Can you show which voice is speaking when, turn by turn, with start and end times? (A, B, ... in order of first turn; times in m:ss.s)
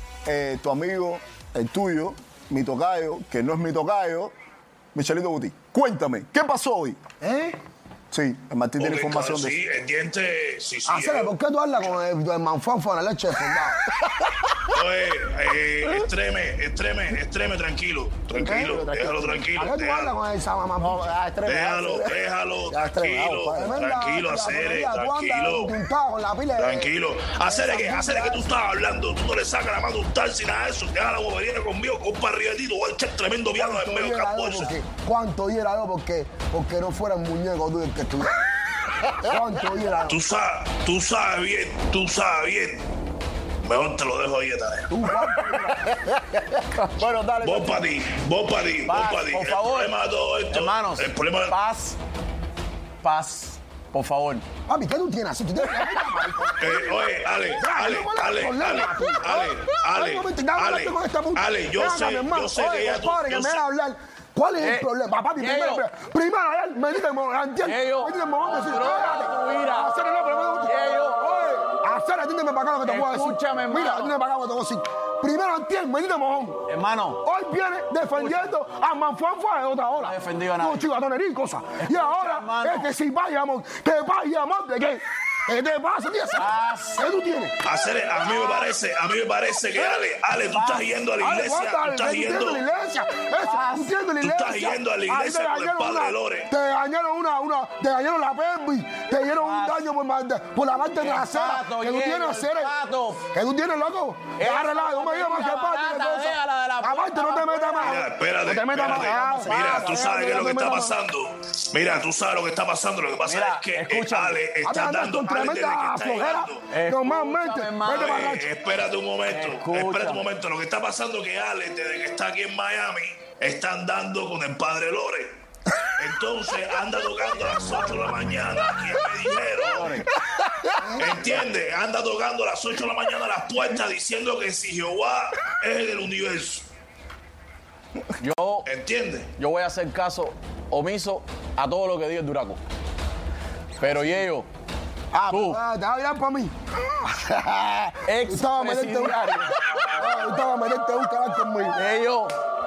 0:00.2-0:04.3 A
0:04.9-0:07.0 A
0:07.2-0:07.6 B
0:08.1-0:09.6 A
0:08.8-0:11.3 C
0:10.9-0:13.8 B
0:14.0-0:14.3 A
0:14.6-0:20.1 C
0:18.3-0:19.6 A
0:18.4-0:18.8 B
0:19.6-0:21.0 B
0:20.8-0:23.8 A
0:21.4-0:25.8 C
0:23.5-0:26.9 B
0:26.6-0:34.7 C
0:27.4-0:28.5 B
0:33.6-0:38.4 B
0:38.9-0:39.4 A
0:39.2-0:40.2 B
0:40.1-0:42.9 C
0:43.6-0:45.0 C
0:44.9-0:45.8 B
0:45.4-0:47.8 A
0:47.4-0:51.6 C
0:48.9-0:49.9 D
0:50.5-0:52.0 D
0:53.0-0:54.4 D
0:54.7-0:57.0 B
0:56.6-1:03.7 C
0:57.6-1:16.6 B
1:04.6-1:05.8 D
1:07.6-1:09.9 D
1:10.6-1:11.6 D
1:12.8-1:14.1 D
1:16.7-1:17.2 D
1:17.2-1:27.6 B
1:18.1-1:18.5 D
1:19.9-1:20.9 D
1:21.8-1:22.9 D
1:26.3-1:27.1 D
1:27.6-1:32.6 C
1:30.5-1:30.9 D
1:31.2-1:42.7 B
1:33.4-1:34.0 D
1:34.2-1:36.5 C
1:39.3-1:39.9 D
1:41.0-1:43.2 D
1:43.3-1:51.0 B
1:44.4-1:48.0 D
1:47.8-1:56.7 C
1:48.8-1:50.3 D
1:53.2-1:54.4 D
1:54.6-1:58.5 B
1:56.7-1:58.3 D
1:57.9-2:10.1 C
1:59.3-2:00.2 D
2:09.6-2:10.1 D
2:10.2-2:10.9 A
2:10.9-2:16.7 C
2:18.2-2:18.7 D
2:18.7-2:19.3 C
2:19.4-2:22.6 D
2:23.8-2:24.5 D
2:25.1-2:26.5 B
2:25.3-2:25.6 D
2:27.0-2:29.2 B
2:28.1-2:29.9 D
2:30.0-2:31.8 B
2:31.8-2:32.3 D